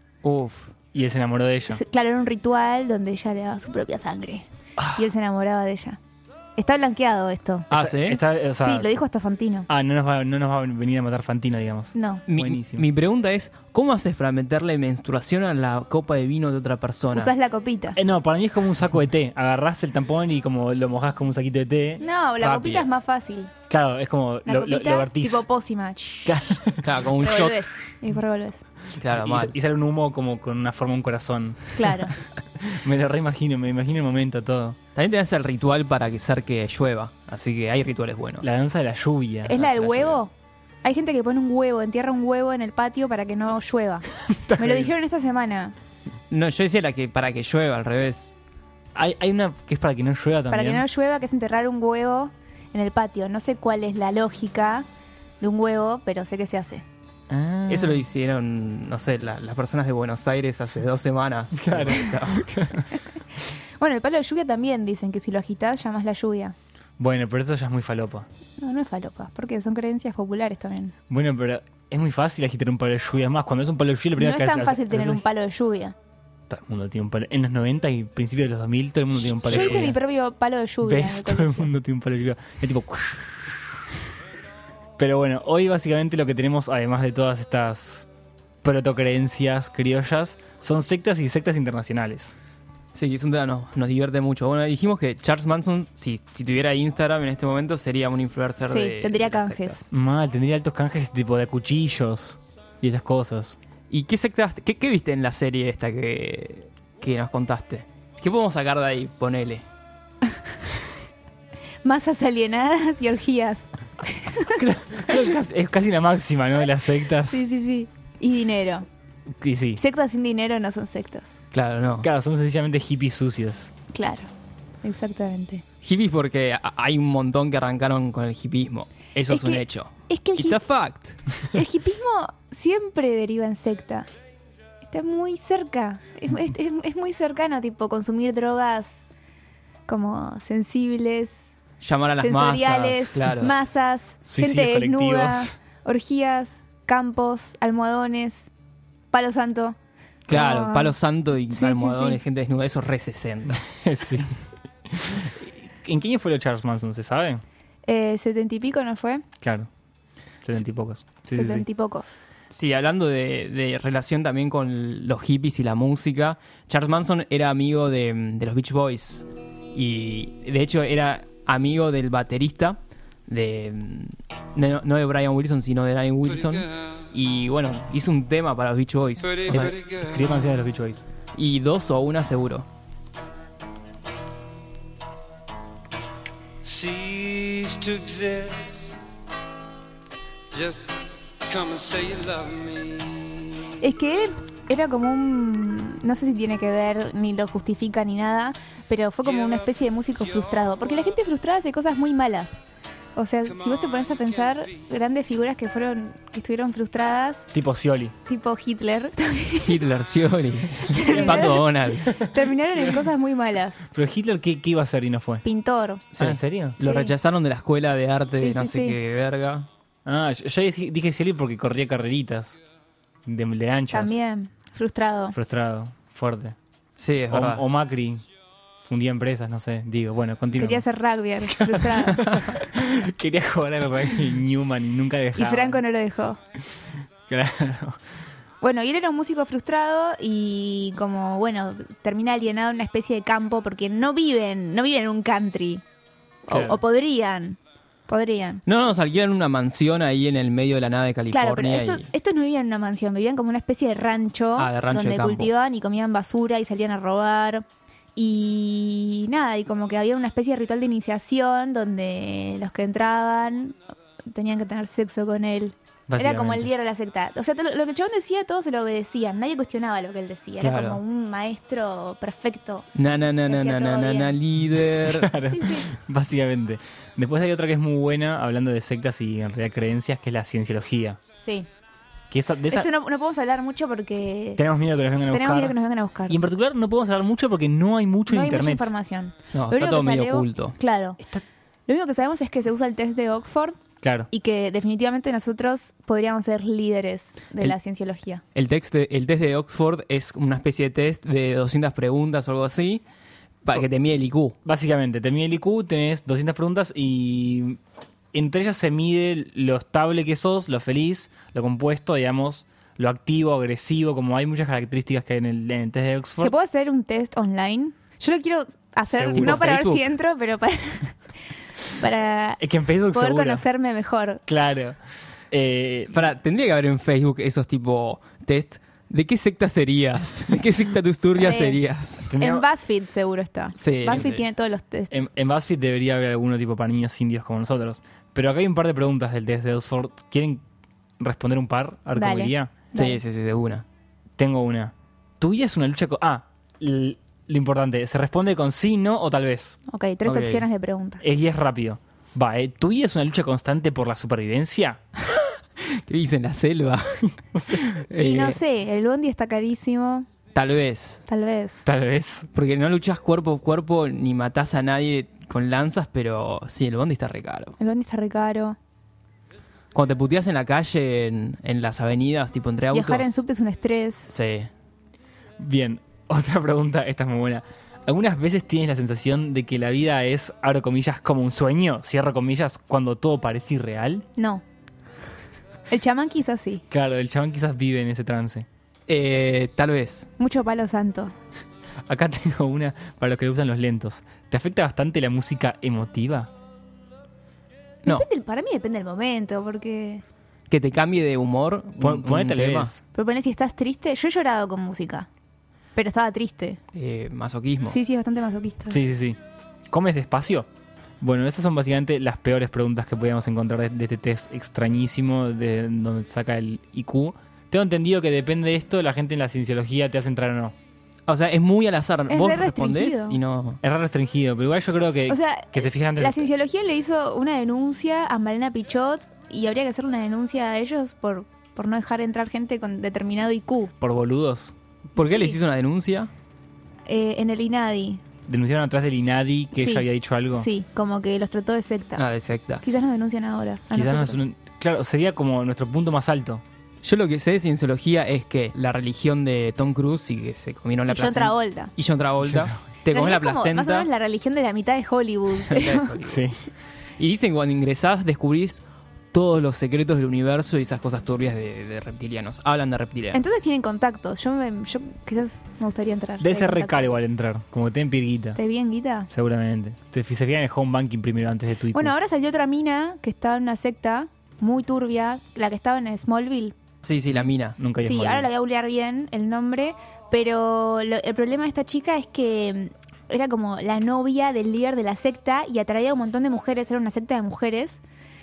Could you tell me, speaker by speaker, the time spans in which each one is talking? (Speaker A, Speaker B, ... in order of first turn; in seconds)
Speaker A: 0.2-0.7, 7.7-8.2, 12.3-17.3, 22.4-22.9, 26.8-27.6, 29.0-29.5, 35.0-38.5, 39.6-40.2, 46.3-48.3, 57.7-62.5, 79.4-79.9, 92.9-99.9, 103.9-109.6, 121.5-122.1, 125.8-131.2, 141.8-143.6, 150.3-153.8, 162.5-179.7, 181.3-182.7, 209.6-212.1, 216.1-219.7, 227.0-227.6, 248.7-252.1, 254.6-255.5, 270.6-271.0, 272.9-275.3, 289.5-290.8, 298.6-303.0, 303.6-304.6, 319.3-320.0, 326.1-332.3, 333.8-334.4, 342.9-343.9, 350.2-350.7, 355.3-358.6, 360.5-361.2, 362.5-367.8, 369.9-373.4, 374.3-374.7, 389.1-390.3, 400.7-402.9, 406.9-408.0, 421.3-423.8, 435.2-436.3, 442.2-442.8, 447.0-454.1, 455.7-456.4, 457.2-458.8, 459.3-463.4, 477.0-477.8
Speaker B: 0.9-1.8, 7.7-8.9, 9.7-12.8, 17.9-22.0, 23.7-25.4, 26.2-26.9, 29.1-34.8, 38.4-39.6, 44.3-44.9, 49.0-50.8, 57.3-58.1, 61.5-62.9, 67.0-68.3, 71.1-75.2, 76.5-80.0, 80.8-83.8, 85.0-88.1, 88.6-92.3, 99.9-103.6, 114.5-117.4, 119.3-119.8, 122.0-123.7, 144.2-145.5, 153.8-154.4, 154.9-157.4, 159.4-159.7, 160.4-161.7, 179.5-181.1, 207.5-208.2, 211.0-211.5, 212.0-212.9, 213.9-215.4, 216.2-216.8, 220.1-222.6, 223.2-224.2, 225.3-226.6, 227.3-228.2, 228.8-230.9, 231.5-235.8, 237.3-238.0, 246.5-246.8, 266.1-266.7, 275.0-281.2, 282.3-282.9, 284.6-285.8, 286.3-288.9, 294.0-294.3, 304.6-307.8, 308.3-316.5, 319.1-319.7, 322.6-323.6, 324.5-325.0, 325.5-326.2, 332.3-332.6, 335.1-340.6, 341.2-342.7, 344.4-349.8, 351.2-355.0, 357.5-357.9, 361.9-362.5, 375.6-384.2, 386.9-388.7, 392.1-396.5, 402.0-403.0, 408.9-409.4, 409.9-410.7, 411.2-420.8, 423.8-426.5, 434.0-434.8, 438.5-440.7, 443.9-446.6, 452.4-452.8, 456.2-456.6, 466.4-468.6, 469.3-472.1, 477.3-478.5
Speaker C: 1.7-6.0, 6.6-7.7, 8.6-9.7, 11.9-12.2, 17.1-18.0, 22.0-23.5, 24.5-26.4, 27.2-28.6, 31.8-32.1, 39.5-40.3, 40.8-45.8, 50.5-54.9, 55.4-56.9, 63.8-66.5, 68.6-71.0, 74.2-76.0, 79.4-81.7, 98.6-99.8, 111.8-114.6, 117.3-118.9, 119.8-121.3, 123.9-124.3, 124.8-125.6, 129.3-130.6, 131.5-134.1, 134.8-139.0, 139.9-141.5, 142.2-148.5, 149.1-149.8, 150.3-151.0, 151.5-152.2, 157.9-159.2, 161.3-162.3, 193.8-202.6, 203.2-207.5, 208.3-209.8, 210.8-213.9, 215.4-216.0, 216.8-217.1, 218.3-219.0, 223.9-225.4, 230.6-232.4, 235.4-236.4, 238.6-245.8, 246.5-248.6, 251.3-257.6, 258.2-263.8, 264.3-272.9, 273.5-274.4, 275.5-275.9, 281.4-281.7, 282.7-284.6, 285.3-286.4, 288.3-291.2, 291.9-293.8, 294.3-298.4, 316.4-321.1, 321.9-324.4, 331.4-331.8, 332.4-335.2, 342.1-343.2, 349.9-351.2, 358.2-360.3, 361.3-361.9, 367.8-368.8, 372.9-374.3, 384.4-384.6, 385.9-386.8, 390.4-391.4, 398.1-400.2, 403.1-405.3, 405.9-406.8, 407.9-409.0, 422.3-423.4, 425.3-433.9, 435.2-435.6, 437.1-438.2, 439.7-442.2, 442.8-444.4, 451.1-451.9, 453.1-456.1, 463.3-467.2, 468.6-469.3, 471.9-476.8, 478.0-488.0
Speaker D: 176.3-177.0, 179.2-180.5, 186.6-188.9, 190.5-190.9, 191.4-193.8, 199.2-199.7, 200.2-201.1, 203.4-204.8